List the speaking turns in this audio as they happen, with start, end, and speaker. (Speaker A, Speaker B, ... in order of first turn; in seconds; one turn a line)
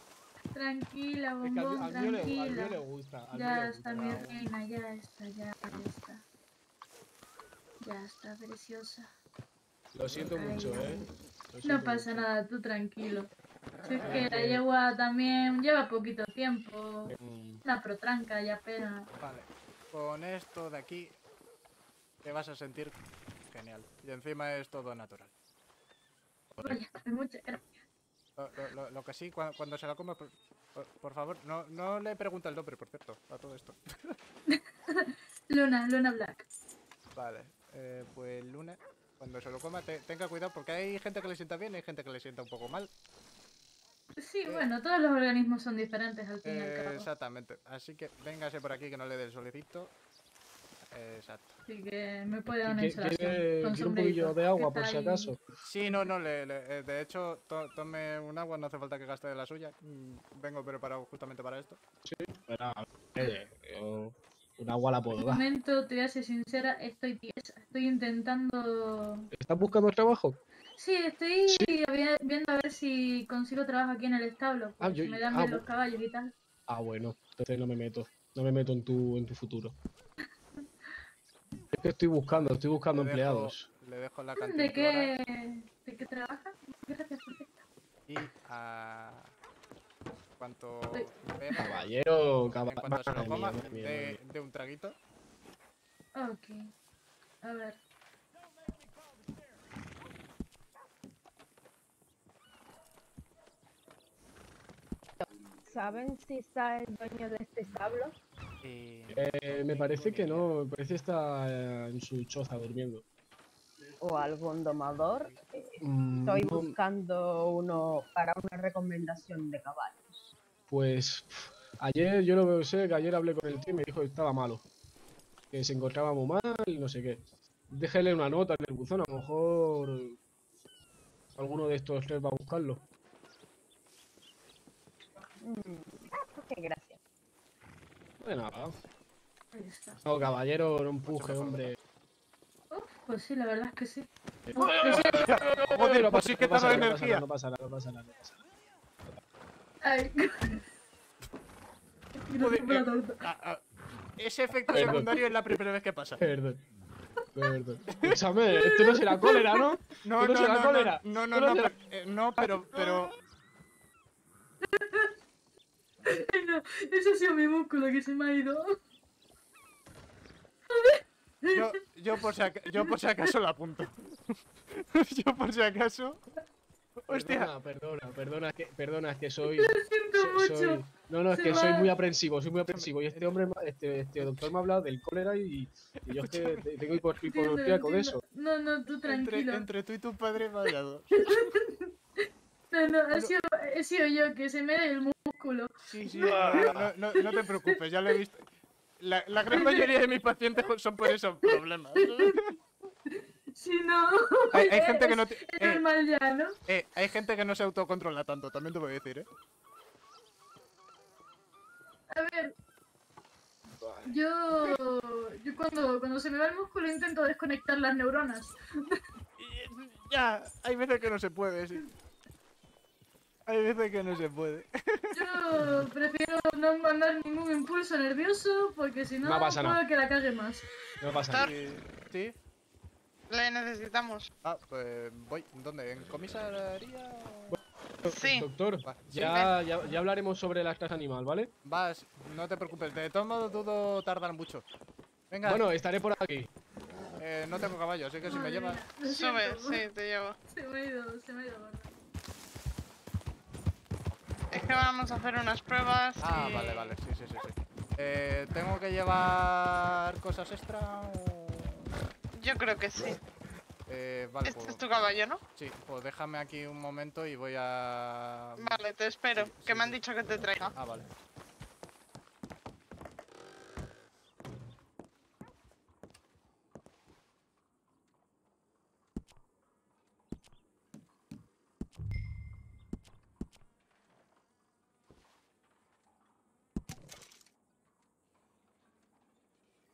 Speaker A: 0.5-2.8
Speaker B: 1.4-4.5
Speaker A: 3.3-6.2
Speaker A: 7.8-9.1
Speaker B: 9.9-12.3
Speaker A: 10.2-11.0
Speaker A: 11.6-13.3
Speaker A: 13.8-17.1
Speaker B: 14.0-14.6
Speaker B: 17.1-17.6
Speaker A: 17.6-19.1
Speaker C: 19.2-21.1
Speaker C: 22.2-22.9
Speaker C: 23.5-25.3
Speaker A: 26.6-27.6
Speaker C: 28.4-34.2
Speaker A: 34.5-36.4
Speaker C: 37.1-42.9
Speaker A: 44.2-47.1
Speaker C: 46.4-49.9
Speaker C: 50.9-51.6
Speaker A: 51.7-55.3
Speaker B: 52.5-55.4
Speaker C: 55.6-61.8
Speaker B: 62.0-65.4
Speaker A: 65.2-69.3
Speaker B: 69.3-70.4
Speaker A: 70.8-76.3
Speaker B: 71.5-71.7
Speaker B: 74.8-75.6
Speaker B: 76.7-79.8
Speaker B: 81.7-83.7
Speaker C: 82.9-85.1
Speaker A: 84.4-87.5
Speaker C: 88.1-89.3
Speaker C: 90.4-91.9
Speaker B: 91.6-94.2
Speaker C: 92.4-94.9
Speaker A: 96.2-96.7
Speaker A: 97.4-97.8
Speaker D: 105.2-108.1
Speaker C: 108.6-110.5
Speaker B: 109.1-113.0
Speaker D: 114.0-120.1
Speaker B: 115.8-116.7
Speaker B: 120.7-124.6
Speaker B: 125.5-130.2
Speaker B: 131.3-132.8
Speaker D: 135.4-137.0
Speaker B: 138.2-138.7
Speaker A: 139.5-140.0
Speaker B: 140.0-141.8
Speaker C: 141.1-141.7
Speaker A: 142.7-144.1
Speaker B: 144.5-148.4
Speaker C: 144.8-147.2
Speaker A: 149.8-150.6
Speaker A: 152.3-153.2
Speaker C: 152.3-153.6
Speaker C: 154.2-156.2
Speaker B: 154.7-155.1
Speaker A: 154.7-155.1
Speaker B: 156.2-156.6
Speaker B: 157.3-161.7
Speaker C: 157.9-158.2
Speaker A: 158.5-159.7
Speaker C: 160.0-163.1
Speaker B: 162.4-163.1
Speaker A: 164.7-165.1
Speaker A: 166.1-168.7
Speaker A: 170.7-171.6
Speaker C: 171.5-176.2
Speaker C: 177.0-177.5
Speaker B: 177.1-188.2
Speaker A: 179.5-181.9
Speaker C: 182.7-183.3
Speaker C: 184.2-184.5
Speaker C: 186.1-186.7
Speaker A: 187.3-189.7
Speaker C: 189.1-191.5
Speaker A: 191.2-191.9
Speaker A: 192.7-195.7
Speaker C: 195.9-198.4
Speaker B: 196.2-196.9
Speaker A: 197.2-197.4
Speaker C: 199.0-202.6
Speaker A: 199.5-199.9
Speaker A: 202.0-202.4
Speaker A: 203.1-206.5
Speaker C: 204.5-205.8
Speaker C: 206.7-209.3
Speaker A: 212.1-212.5
Speaker B: 213.8-214.1
Speaker A: 214.1-219.0
Speaker C: 219.4-221.9
Speaker C: 223.5-225.3
Speaker A: 225.1-230.6
Speaker B: 229.2-229.8
Speaker B: 231.0-231.5
Speaker E: 231.3-231.6
Speaker C: 231.3-232.3
Speaker E: 233.3-234.3
Speaker C: 234.4-237.6
Speaker B: 237.5-241.5
Speaker E: 238.0-238.5
Speaker C: 238.8-239.5
Speaker C: 241.6-244.6
Speaker C: 245.3-245.6
Speaker B: 245.4-246.5
Speaker C: 247.2-248.8
Speaker A: 248.2-249.8
Speaker E: 249.0-250.4
Speaker A: 250.5-251.9
Speaker E: 254.5-256.9
Speaker C: 256.2-261.7
Speaker E: 262.4-263.2
Speaker C: 263.9-264.8
Speaker E: 264.4-265.4
Speaker C: 265.5-270.0
Speaker E: 268.6-270.7
Speaker C: 270.6-271.1